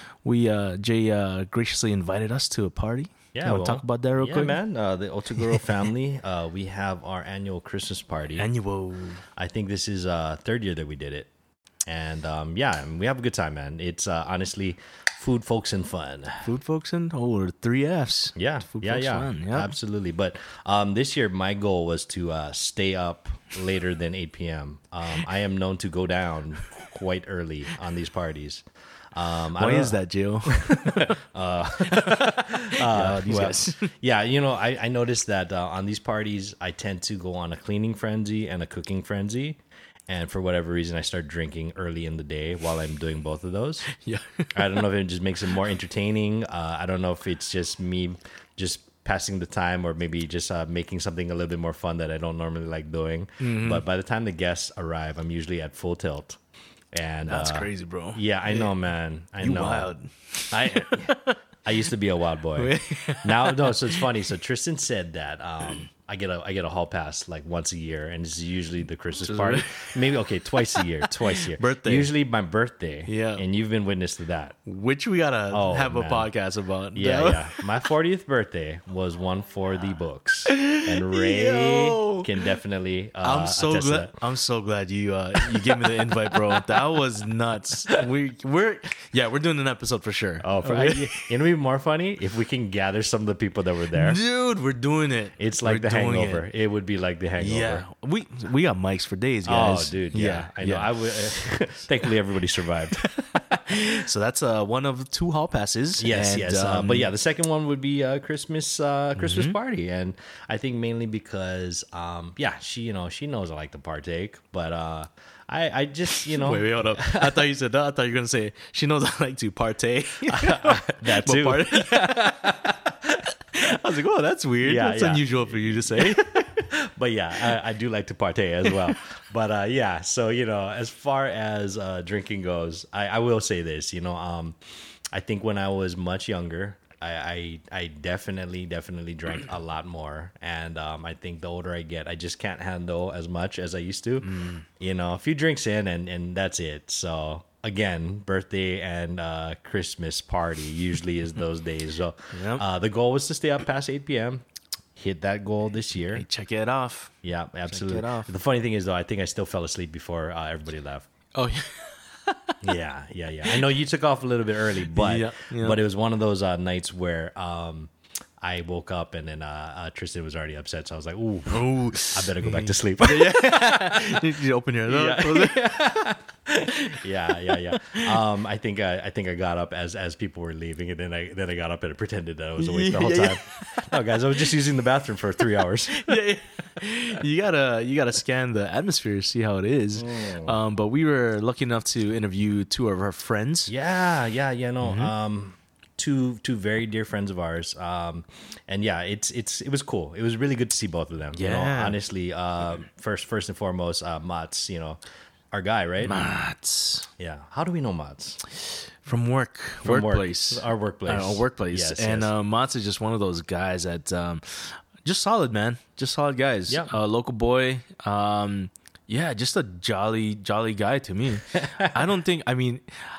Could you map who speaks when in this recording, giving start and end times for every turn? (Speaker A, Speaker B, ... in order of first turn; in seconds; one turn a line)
Speaker A: 0.2-4.6
Speaker B: 3.3-8.5
Speaker A: 8.4-9.2
Speaker B: 9.4-11.3
Speaker B: 11.9-16.5
Speaker A: 16.4-19.7
Speaker B: 18.4-28.6
Speaker B: 29.1-30.0
Speaker A: 29.6-31.1
Speaker B: 31.0-43.9
Speaker A: 32.2-33.9
Speaker A: 44.0-44.5
Speaker B: 44.5-56.4
Speaker A: 53.4-53.8
Speaker B: 56.9-59.9
Speaker A: 57.3-58.7
Speaker A: 59.4-61.3
Speaker B: 60.5-74.6
Speaker A: 62.6-64.0
Speaker A: 69.2-69.7
Speaker A: 71.6-72.1
Speaker A: 73.1-73.4
Speaker A: 74.7-77.6
Speaker B: 75.5-76.3
Speaker B: 77.0-84.2
Speaker A: 80.5-82.2
Speaker A: 83.2-91.1
Speaker B: 90.4-94.2
Speaker A: 93.9-96.4
Speaker B: 95.4-97.9
Speaker A: 97.4-100.9
Speaker B: 99.4-103.0
Speaker A: 103.7-107.1
Speaker B: 106.0-117.5
Speaker A: 109.2-109.5
Speaker A: 116.2-122.5
Speaker B: 120.3-122.7
Speaker A: 123.5-126.2
Speaker B: 124.6-134.6
Speaker B: 135.1-154.4
Speaker A: 144.2-144.7
Speaker A: 152.3-152.6
Speaker B: 155.0-156.2
Speaker A: 156.2-157.1
Speaker B: 157.2-161.1
Speaker A: 157.7-158.3
Speaker A: 161.4-162.5
Speaker B: 162.6-173.4
Speaker A: 164.9-165.8
Speaker A: 171.5-175.7
Speaker B: 174.9-176.2
Speaker B: 176.8-186.0
Speaker A: 182.6-183.8
Speaker A: 186.1-193.7
Speaker B: 190.0-190.6
Speaker B: 193.7-206.2
Speaker A: 194.8-195.1
Speaker A: 201.3-202.0
Speaker A: 206.1-207.1
Speaker B: 207.2-208.4
Speaker A: 209.0-222.8
Speaker B: 209.8-212.3
Speaker B: 216.7-216.9
Speaker B: 221.7-222.1